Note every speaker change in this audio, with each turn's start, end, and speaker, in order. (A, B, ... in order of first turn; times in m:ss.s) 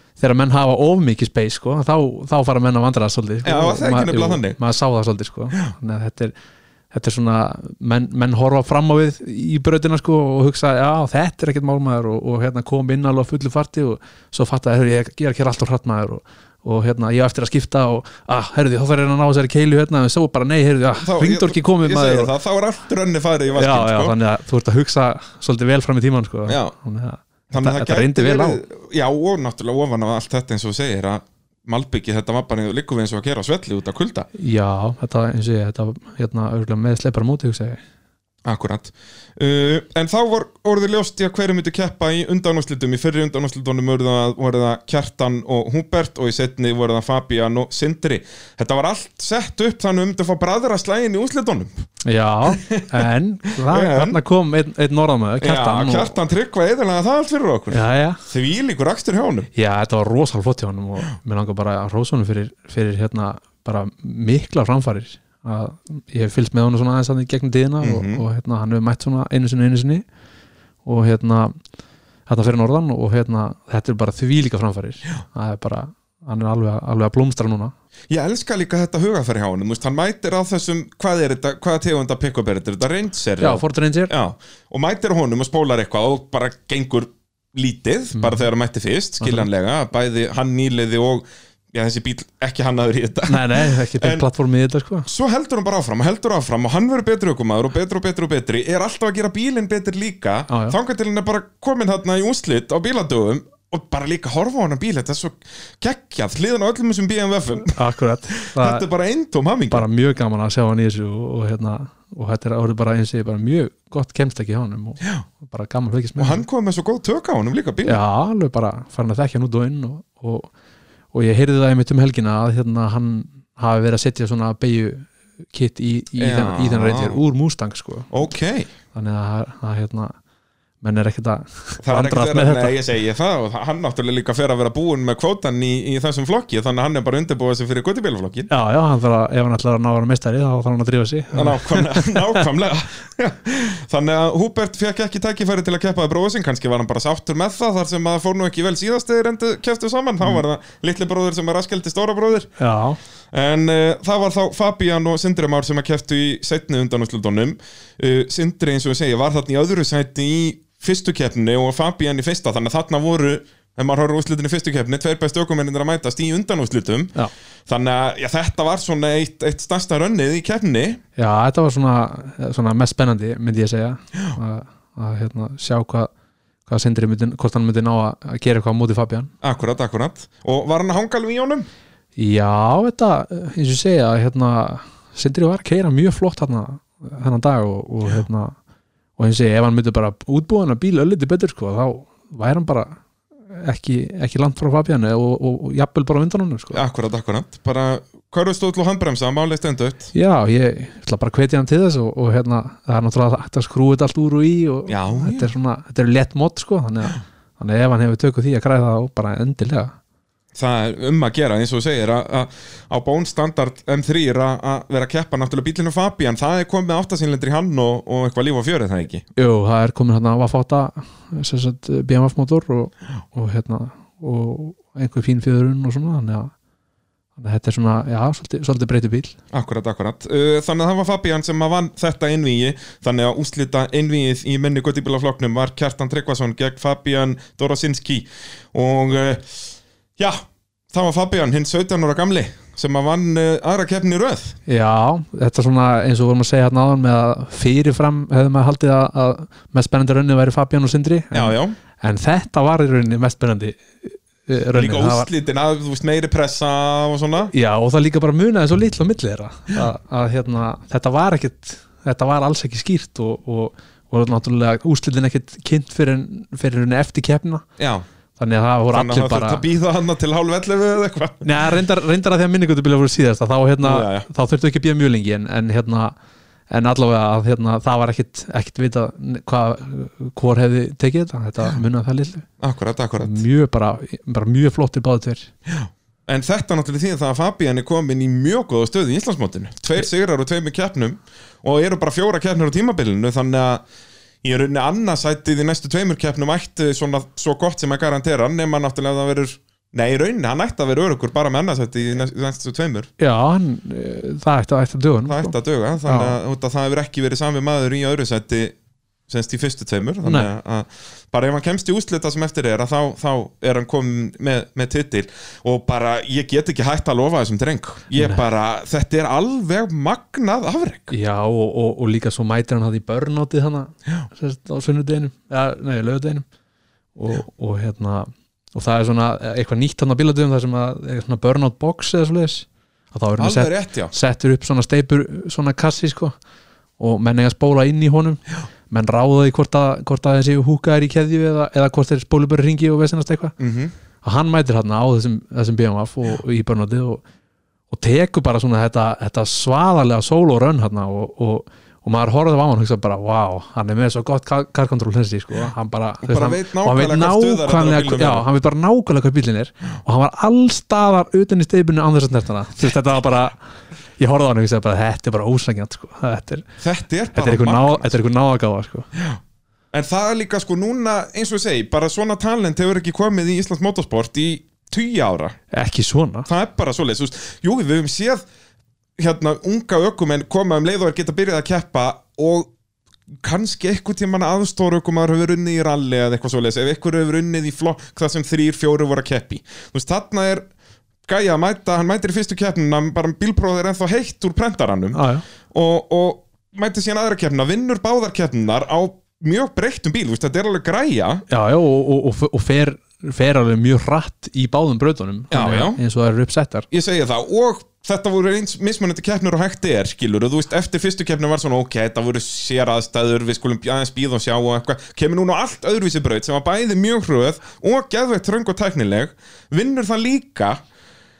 0:00.2-0:06.3 A
0:03.4-0:04.6 B
0:06.9-0:22.3 A
0:21.0-0:24.2 B
0:23.5-0:28.6 A
0:26.5-0:26.8 B
0:27.5-0:34.3 B
0:34.4-0:37.8 A
0:38.4-0:51.7 B
0:52.0-0:56.2 A
0:52.5-0:53.0 B
0:53.7-0:54.2 B
0:55.4-0:59.5 B
0:57.7-0:58.2 A
0:59.6-1:10.0 A
1:07.8-1:08.2 B
1:10.8-1:11.6 A
1:12.3-1:17.7 A
1:18.1-1:34.2 B
1:23.4-1:24.1 A
1:28.2-1:28.5 A
1:29.2-1:29.5 A
1:33.3-1:35.1 A
1:35.1-1:47.8 B
1:40.5-1:40.8 A
1:47.7-1:48.9 A
1:48.4-1:49.8 B
1:49.7-1:56.4 A
1:56.2-1:58.0 B
1:57.8-2:00.5 A
2:01.1-2:08.1 A
2:06.2-2:07.2 B
2:08.1-2:08.7 B
2:08.9-2:10.2 A
2:10.8-2:12.8 A
2:11.8-2:18.5 B
2:18.5-2:22.4 A
2:21.3-2:32.5 B
2:32.6-2:33.0 A
2:33.3-2:47.1 B
2:47.7-2:51.0 B
2:51.2-2:56.1 A
2:56.7-2:59.3 A
2:59.4-3:01.7 B
3:02.2-3:08.6 A
3:09.2-3:13.0 A
3:13.5-3:16.8 A
3:16.7-3:20.1 B
3:20.1-3:29.9 A
3:24.9-3:25.5 B
3:30.6-3:39.2 B
3:39.4-3:46.5 A
3:47.4-3:49.4 A
3:49.5-4:04.6 B
4:04.7-4:15.3 A
4:11.3-4:11.8 B
4:14.7-4:17.5 B
4:17.5-4:27.6 A
4:27.8-4:28.0 B
4:28.4-4:29.6 A
4:28.9-4:31.7 B
4:31.4-4:36.2 A
4:33.8-4:34.3 B
4:36.7-4:42.5 A
4:42.6-4:43.4 B
4:43.2-4:45.5 A
4:45.7-4:53.8 B
4:54.4-5:03.1 B
5:03.2-5:06.4 A
5:05.3-5:08.8 B
5:09.3-5:21.1 B
5:18.2-5:18.4 A
5:21.1-5:26.4 A
5:27.2-5:36.4 A
5:33.4-5:34.1 B
5:37.0-5:43.6 A
5:43.6-5:43.9 B
5:44.2-5:47.2 A
5:47.9-6:03.6 A
5:56.2-5:58.5 B
6:04.2-6:06.7 A
6:06.8-6:08.2 B
6:07.3-6:09.1 A
6:09.1-6:09.4 B
6:09.9-6:15.6 B
6:15.7-6:16.5 A
6:16.5-6:18.4 B
6:19.2-6:22.7 B
6:23.4-6:30.7 B
6:31.3-6:41.4 B
6:35.1-6:35.4 A
6:41.5-6:46.9 A
6:45.5-6:46.0 B
6:46.9-7:00.8 B